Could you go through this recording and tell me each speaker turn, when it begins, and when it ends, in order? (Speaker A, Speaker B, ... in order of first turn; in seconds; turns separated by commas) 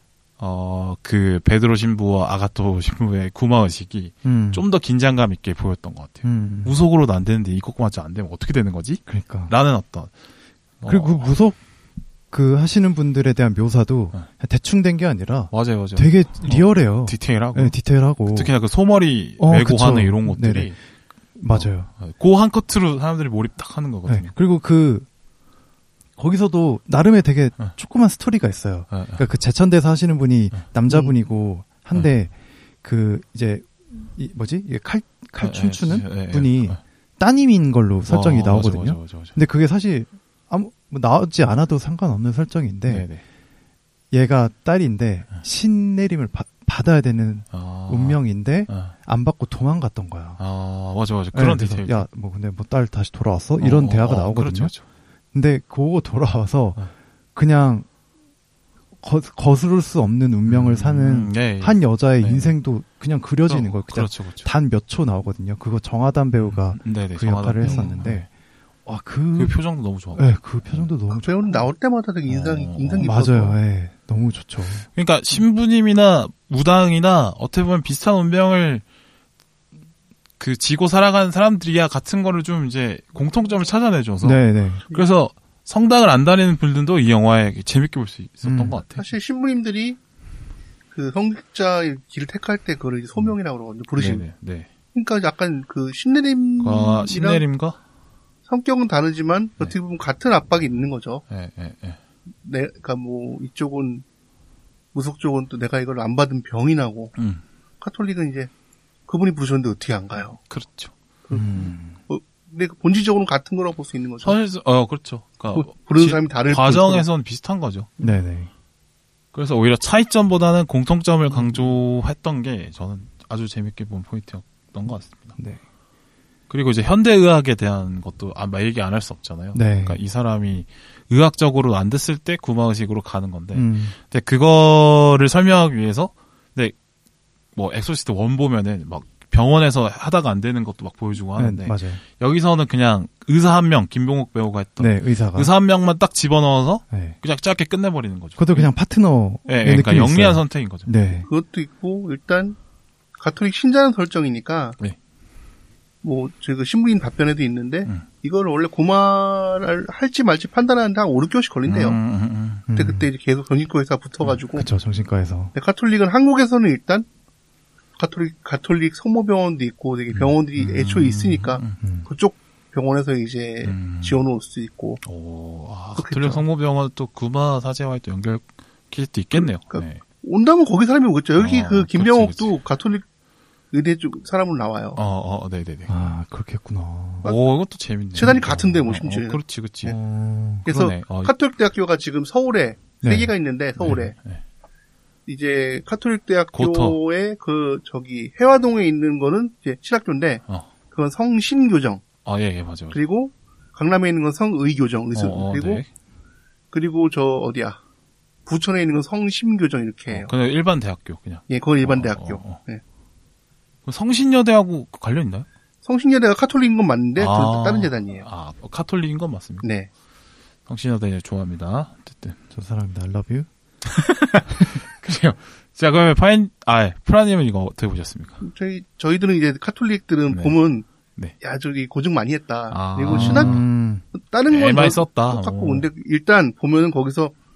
Speaker A: 0.4-10.1, Speaker B: 4.2-4.6, Speaker B: 6.2-6.8, Speaker B: 9.1-9.5, Speaker A: 10.8-11.3, Speaker B: 10.9-11.6, Speaker B: 12.3-18.5, Speaker A: 15.5-20.8, Speaker B: 19.4-20.8, Speaker B: 21.4-21.9, Speaker A: 21.5-24.3, Speaker B: 24.1-25.1, Speaker B: 26.2-43.1, Speaker A: 28.9-29.2, Speaker A: 30.6-31.0, Speaker A: 35.4-36.8, Speaker A: 38.1-39.4, Speaker A: 42.9-43.2, Speaker B: 44.1-50.4, Speaker A: 47.5-48.9, Speaker A: 50.4-52.0, Speaker B: 51.3-54.7, Speaker A: 53.6-54.8, Speaker B: 55.3-56.8, Speaker B: 57.4-57.9, Speaker B: 59.0-68.3, Speaker A: 60.5-62.5, Speaker A: 63.5-64.5, Speaker A: 66.4-68.3, Speaker C: 67.6-67.9, Speaker B: 68.9-69.6, Speaker A: 69.4-70.9, Speaker B: 70.2-71.7, Speaker C: 71.1-73.5, Speaker A: 72.3-73.3, Speaker B: 73.0-74.9, Speaker A: 74.9-78.8, Speaker A: 80.4-89.1, Speaker B: 84.2-84.8, Speaker B: 88.4-88.8, Speaker C: 89.0-90.0, Speaker C: 90.9-94.2, Speaker A: 94.0-94.7, Speaker C: 94.9-97.4, Speaker A: 96.6-97.8, Speaker C: 98.5-101.2, Speaker A: 101.3-102.0, Speaker C: 102.4-104.0, Speaker C: 104.9-107.1, Speaker A: 107.2-107.4, Speaker C: 107.8-108.5, Speaker C: 109.1-110.4, Speaker A: 110.5-110.9, Speaker C: 111.2-114.4, Speaker B: 111.3-112.0, Speaker A: 114.2-117.9, Speaker C: 115.5-117.1, Speaker B: 118.0-118.5, Speaker A: 119.3-125.3, Speaker A: 126.5-136.8, Speaker B: 129.5-130.0, Speaker B: 133.5-134.0, Speaker A: 137.6-148.7, Speaker B: 141.4-142.0, Speaker B: 144.8-145.5, Speaker B: 146.9-147.2, Speaker B: 148.4-151.3, Speaker A: 149.5-150.9, Speaker C: 151.3-152.6, Speaker C: 153.2-154.8, Speaker C: 156.0-162.0, Speaker A: 161.7-162.7, Speaker B: 162.7-163.1, Speaker C: 162.8-164.7, Speaker B: 164.6-165.5, Speaker C: 165.6-167.1, Speaker C: 168.0-175.0, Speaker A: 170.1-171.8, Speaker B: 171.8-172.1, Speaker A: 173.6-174.2, Speaker A: 175.0-180.0, Speaker C: 176.0-176.4, Speaker C: 179.3-183.0, Speaker A: 181.4-182.6, Speaker C: 183.7-185.0, Speaker A: 185.0-185.9, Speaker B: 185.9-187.3, Speaker A: 187.2-190.0, Speaker C: 188.1-189.9, Speaker B: 189.9-190.7, Speaker A: 190.7-191.3, Speaker C: 190.7-194.2, Speaker B: 193.0-193.3, Speaker A: 194.2-194.4, Speaker C: 195.3-202.1, Speaker A: 196.5-197.0, Speaker A: 202.2-203.0, Speaker C: 202.9-205.8, Speaker A: 205.1-205.9, Speaker C: 206.7-207.8, Speaker C: 208.5-210.3, Speaker A: 210.1-212.6, Speaker C: 211.5-212.8, Speaker A: 213.9-215.5, Speaker C: 215.8-218.2, Speaker A: 217.2-219.7, Speaker C: 219.6-219.9, Speaker A: 220.7-222.4, Speaker B: 222.5-223.5, Speaker A: 223.8-228.4, Speaker C: 228.4-230.9, Speaker A: 230.3-230.6, Speaker C: 231.4-233.6, Speaker A: 232.7-233.7, Speaker B: 233.1-234.1, Speaker C: 234.1-237.3, Speaker A: 234.5-235.9